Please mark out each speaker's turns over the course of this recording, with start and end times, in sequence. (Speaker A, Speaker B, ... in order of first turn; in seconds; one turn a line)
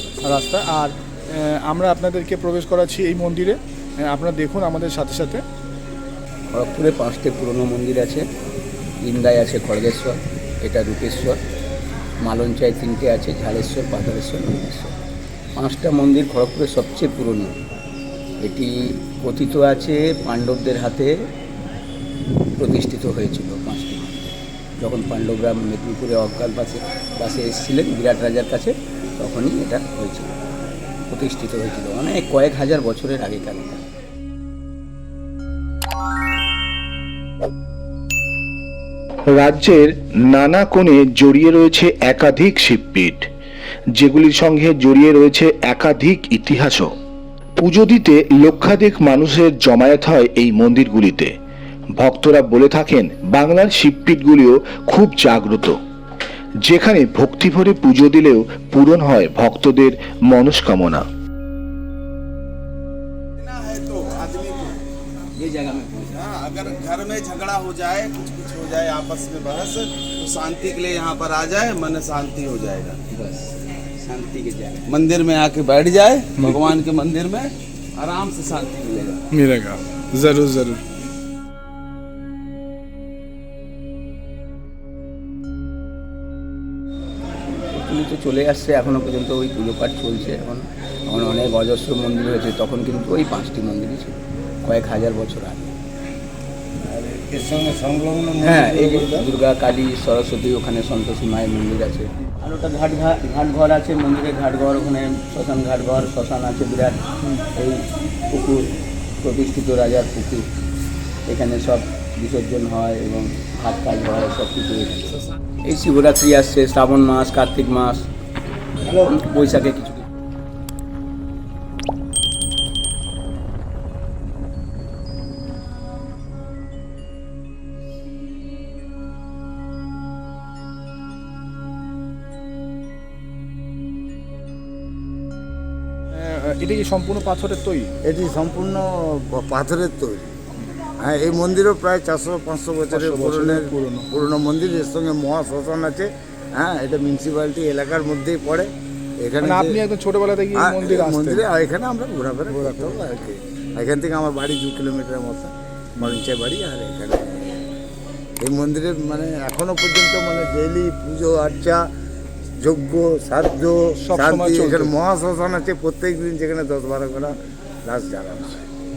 Speaker A: 0.2-5.4
Speaker B: 6.5-8.2
Speaker B: 9.0-11.4
Speaker B: 12.2-14.9
Speaker B: 15.6-17.6
Speaker B: 18.4-21.1
Speaker B: 22.6-30.3
Speaker B: 31.1-33.8
Speaker C: 39.4-43.3
Speaker C: 44.0-46.9
Speaker C: 47.6-51.3
Speaker C: 52.0-55.8
Speaker C: 56.6-61.0
Speaker D: 63.4-64.8
Speaker B: 65.4-66.2
Speaker D: 66.1-73.0
Speaker B: 73.1-74.9
Speaker D: 74.9-79.2
Speaker A: 79.3-80.8
Speaker B: 87.7-95.7
Speaker E: 96.9-99.3
Speaker B: 98.4-107.0
Speaker B: 107.5-108.7
Speaker B: 109.2-110.5
Speaker B: 111.3-118.1
Speaker E: 118.9-119.1
Speaker B: 118.9-120.0
Speaker A: 136.1-137.9
Speaker E: 138.0-140.3
Speaker E: 141.0-149.8
Speaker A: 142.9-144.1
Speaker A: 149.4-151.4
Speaker E: 150.6-157.6
Speaker E: 158.4-161.9
Speaker E: 162.6-168.7
Speaker A: 164.0-164.9